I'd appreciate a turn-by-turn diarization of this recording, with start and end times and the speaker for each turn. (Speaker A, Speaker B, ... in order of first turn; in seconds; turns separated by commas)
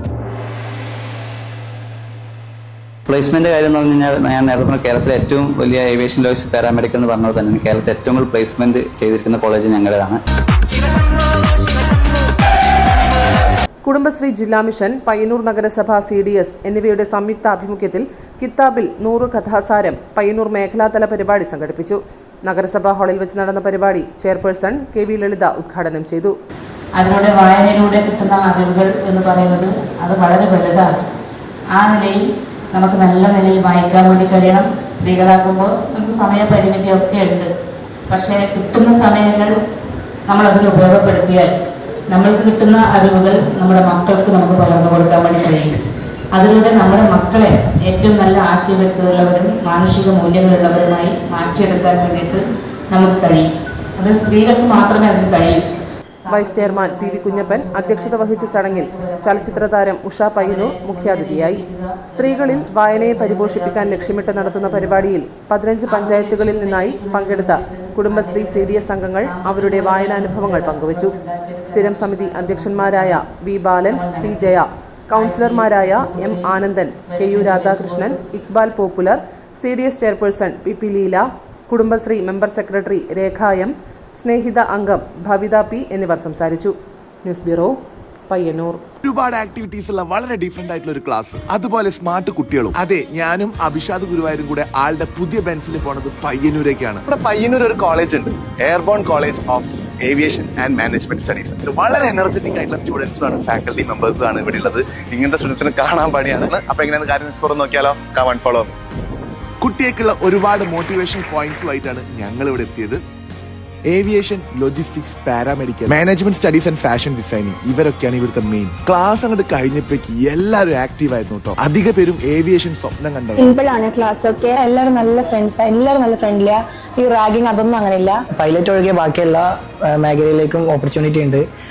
Speaker A: 3.1-10.2, Speaker B: 13.8-26.3, Speaker C: 27.0-31.0, Speaker C: 31.7-37.5, Speaker C: 38.1-39.6, Speaker C: 40.3-41.5, Speaker C: 42.1-45.8, Speaker C: 46.3-55.6, Speaker C: 56.2-59.7, Speaker B: 56.3-61.6, Speaker C: 60.4-65.1, Speaker B: 62.2-71.1, Speaker C: 65.8-73.2, Speaker B: 71.7-87.8, Speaker C: 73.9-78.2, Speaker B: 88.3-88.8, Speaker D: 89.0-97.2, Speaker E: 97.2-99.5, Speaker D: 99.4-104.8, Speaker E: 100.1-100.4, Speaker E: 102.6-108.7, Speaker D: 109.6-113.0, Speaker D: 113.9-123.5, Speaker F: 123.4-128.1, Speaker G: 128.3-131.5